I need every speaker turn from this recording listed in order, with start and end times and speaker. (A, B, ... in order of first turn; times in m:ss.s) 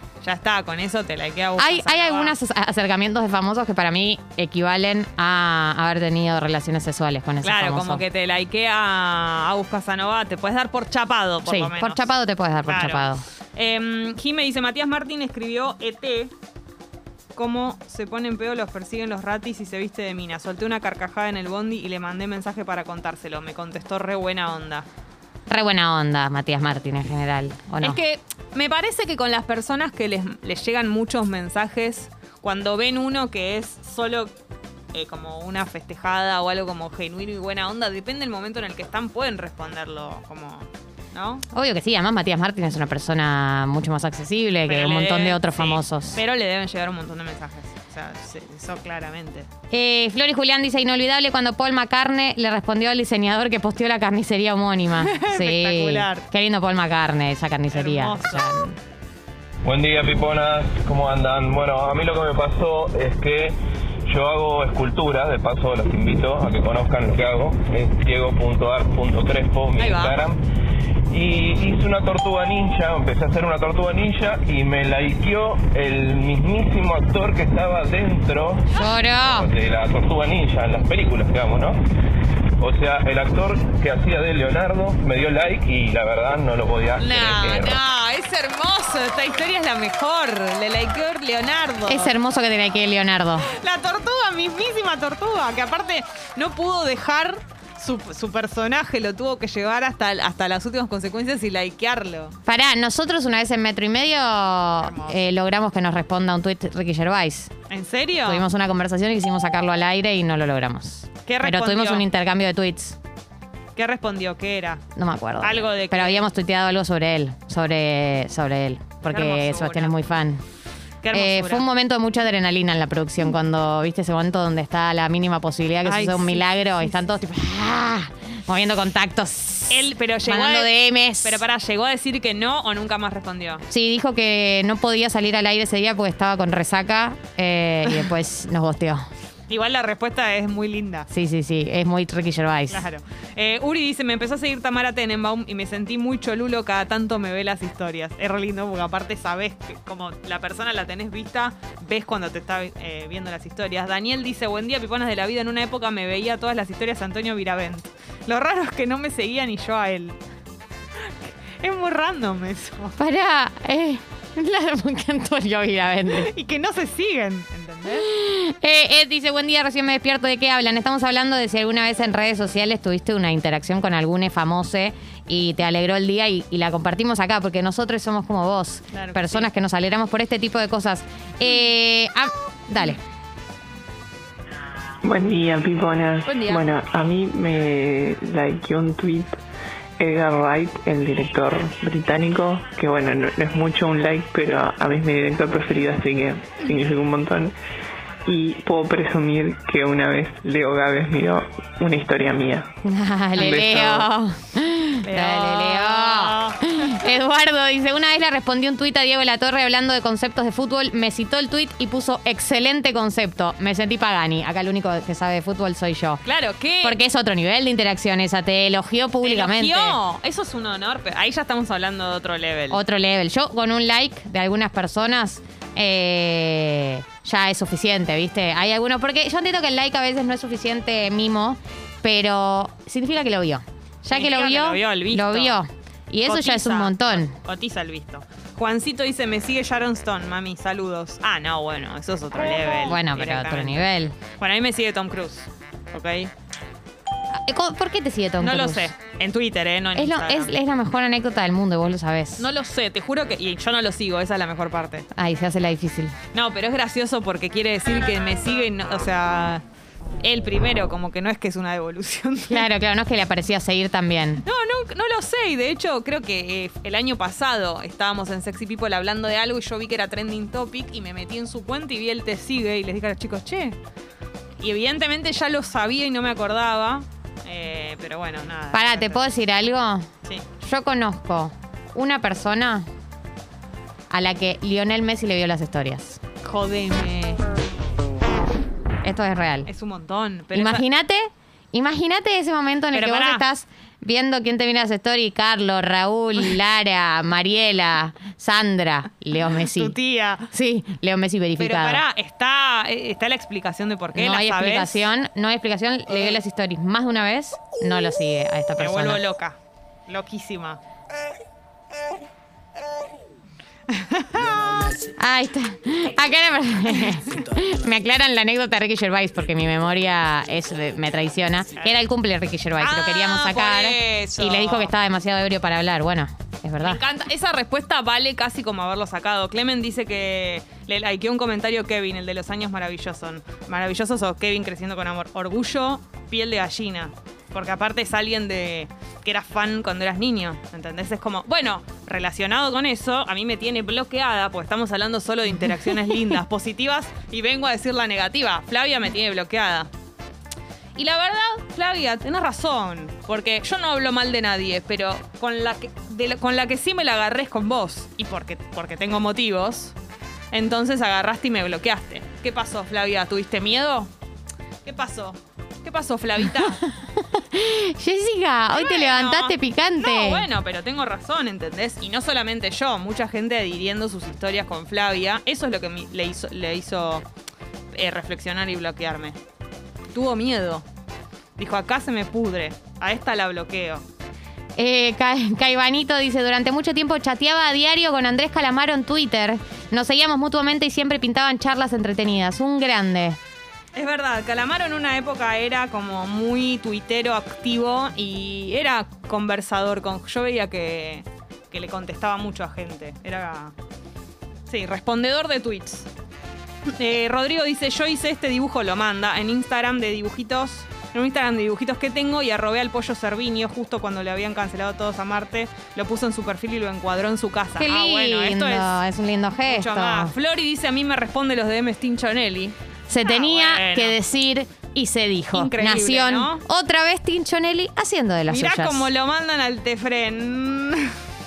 0:00.2-0:02.4 A
0:01.6-0:08.0 B
0:07.4-0:12.1 A
0:11.4-0:13.2 B
0:12.6-0:16.3 A
0:17.3-0:24.9 A
0:25.5-0:28.0 B
0:27.8-0:34.3 A
0:34.9-0:41.4 A
0:41.5-0:46.2 B
0:44.7-0:49.5 A
0:49.7-0:58.7 B
0:55.0-0:56.2 A
0:57.7-0:58.7 A
0:59.6-1:03.5 C
1:04.1-1:10.4 C
1:09.8-1:10.2 A
1:11.1-1:21.8 C
1:18.7-1:19.5 B
1:22.6-1:27.8 C
1:27.0-1:32.1 A
1:31.9-1:33.5 B
1:33.5-1:42.4 A
1:42.4-1:47.5 B
1:44.8-1:45.2 A
1:47.7-1:48.4 A
1:48.2-1:53.0 B
1:51.2-1:52.0 A
1:53.7-1:54.8 A
1:55.0-2:00.4 B
1:55.4-1:56.3 A
1:59.1-2:00.0 A
2:01.0-2:01.6 A
2:01.1-2:11.4 B
2:05.8-2:06.5 A
2:09.7-2:10.7 A
2:11.2-2:13.6 A
2:13.7-2:19.0 B
2:19.5-2:21.1 A
2:21.1-2:22.8 B
2:22.7-2:40.2 A
2:41.0-2:43.0 A
2:43.0-2:46.3 B
2:46.2-2:48.1 A
2:48.1-3:03.0 B
2:58.9-2:59.5 A
3:05.0-3:09.4 D
3:06.2-3:06.6 A
3:10.0-3:17.5 D
3:18.2-3:22.7 D
3:22.8-3:36.2 B
3:23.4-3:24.1 A
3:25.0-3:27.0 A
3:36.2-3:37.0 A
3:36.8-3:40.0 B
3:39.2-3:42.8 A
3:42.7-3:57.4 B
3:54.1-3:55.6 A
3:56.2-4:06.3 A
4:02.8-4:04.1 B
4:07.3-4:08.9 B
4:08.4-4:10.5 A
4:10.0-4:12.5 B
4:12.4-4:15.1 A
4:15.1-4:16.1 B
4:16.3-4:19.6 A
4:20.2-4:22.6 A
4:22.5-4:24.4 B
4:24.4-4:33.8 A
4:34.6-4:39.2 A
4:38.7-4:40.1 B
4:40.6-4:42.8 B
4:44.1-4:46.2 B
4:46.4-4:47.4 A
4:49.0-4:49.7 B
4:49.6-4:50.8 A
4:50.5-5:00.0 B
4:52.9-4:53.4 A
4:59.5-5:00.5 A
5:00.5-5:02.0 B
5:01.6-5:05.1 A
5:04.1-5:09.2 B
5:08.8-5:09.6 A
5:10.1-5:10.8 A
5:14.3-5:14.8 A
5:15.1-5:27.0 B
5:22.8-5:24.9 A
5:26.8-5:49.9 A
5:51.0-5:59.9 A
6:00.5-6:04.1 A
6:04.8-6:06.8 A
6:06.8-6:10.5 B
6:08.7-6:17.2 A
6:17.9-6:19.4 A
6:20.1-6:20.8 A
6:21.6-6:24.0 A
6:24.8-6:33.4 B
6:33.9-6:43.7 A
6:44.7-6:46.1 A
6:47.0-6:58.9 A
6:57.8-7:00.3 B
6:59.7-7:04.2 A
7:03.1-7:09.1 B
7:05.5-7:06.6 A
7:08.5-7:11.1 A